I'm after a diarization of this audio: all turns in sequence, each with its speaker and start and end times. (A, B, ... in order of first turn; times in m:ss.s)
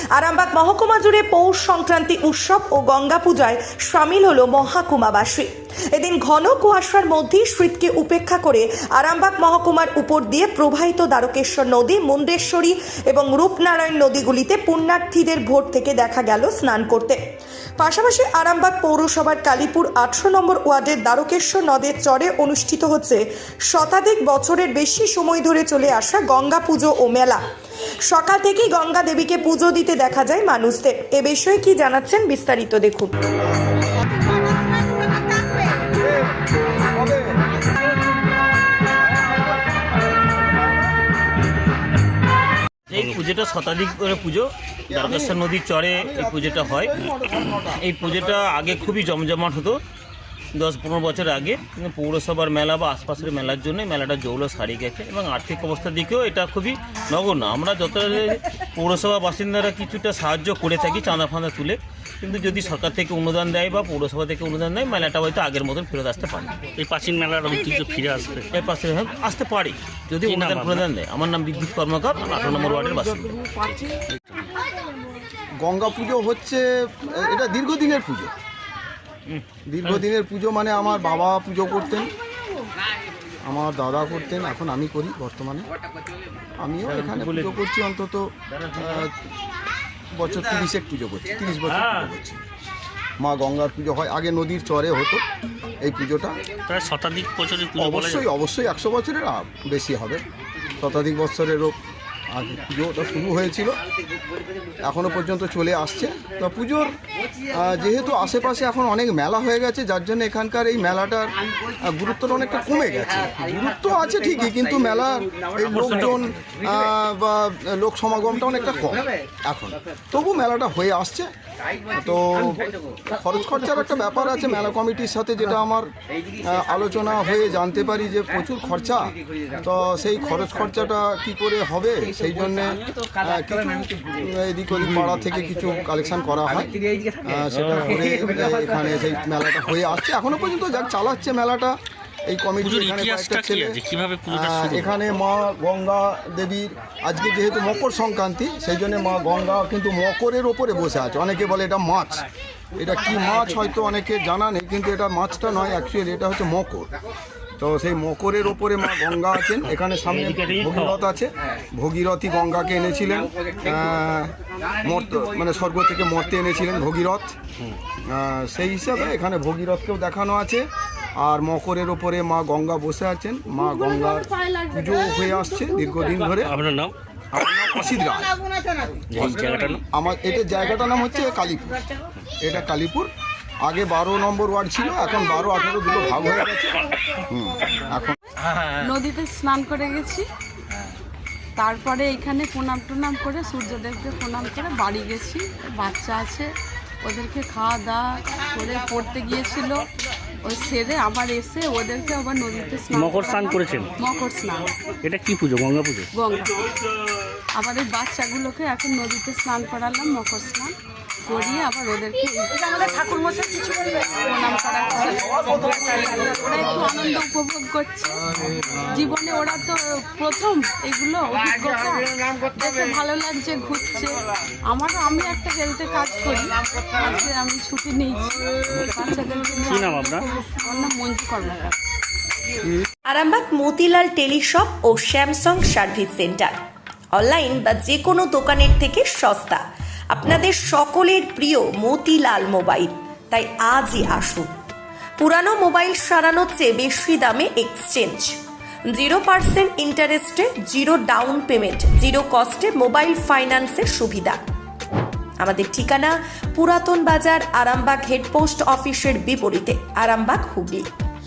0:00.1-0:17.2 A
0:17.8-0:27.4 A
0:28.1-0:33.1 A
0:36.0-0:37.4 B
0:42.9-0:46.9 C
0:44.9-0:45.4 B
0:45.9-0:48.6 B
0:47.7-0:49.8 C
0:50.6-1:06.6 C
1:06.8-1:08.5 D
1:08.5-1:13.4 C
1:10.2-1:10.8 D
1:12.4-1:14.2 B
1:15.6-1:18.3 B
1:19.7-1:22.1 B
1:23.4-1:25.7 B
1:26.6-1:29.2 B
1:26.8-1:27.6 C
1:28.5-1:29.0 C
1:30.1-1:32.4 B
1:33.2-1:35.2 B
1:35.8-1:36.4 B
1:36.7-1:38.3 D
1:37.8-1:40.2 B
1:40.8-1:41.8 B
1:42.3-1:43.8 B
1:44.8-1:46.9 B
1:47.5-2:01.3 B
1:55.7-1:56.4 D
2:01.9-2:23.8 B
2:14.8-2:15.2 D
2:17.5-2:18.0 C
2:22.6-2:25.0 D
2:24.3-2:36.9 B
2:37.6-2:47.3 B
2:40.1-2:41.0 D
2:48.1-2:56.5 B
2:54.4-2:54.7 E
2:56.2-2:56.9 D
2:57.3-2:58.4 B
2:59.1-2:59.8 D
2:59.9-3:01.8 B
3:02.4-3:03.1 B
3:03.6-3:06.8 B
3:07.3-3:08.2 B
3:08.8-3:10.2 E
3:11.6-3:16.5 E
3:17.0-3:19.9 E
3:20.4-3:24.7 E
3:22.9-3:23.9 D
3:25.0-3:26.1 D
3:26.2-3:26.7 E
3:27.6-3:30.7 E
3:31.2-3:51.8 E
3:49.7-3:50.2 D
3:53.1-3:56.6 A
3:57.1-4:04.5 A
4:05.2-4:08.4 A
4:08.9-4:14.4 A
4:15.4-4:20.9 A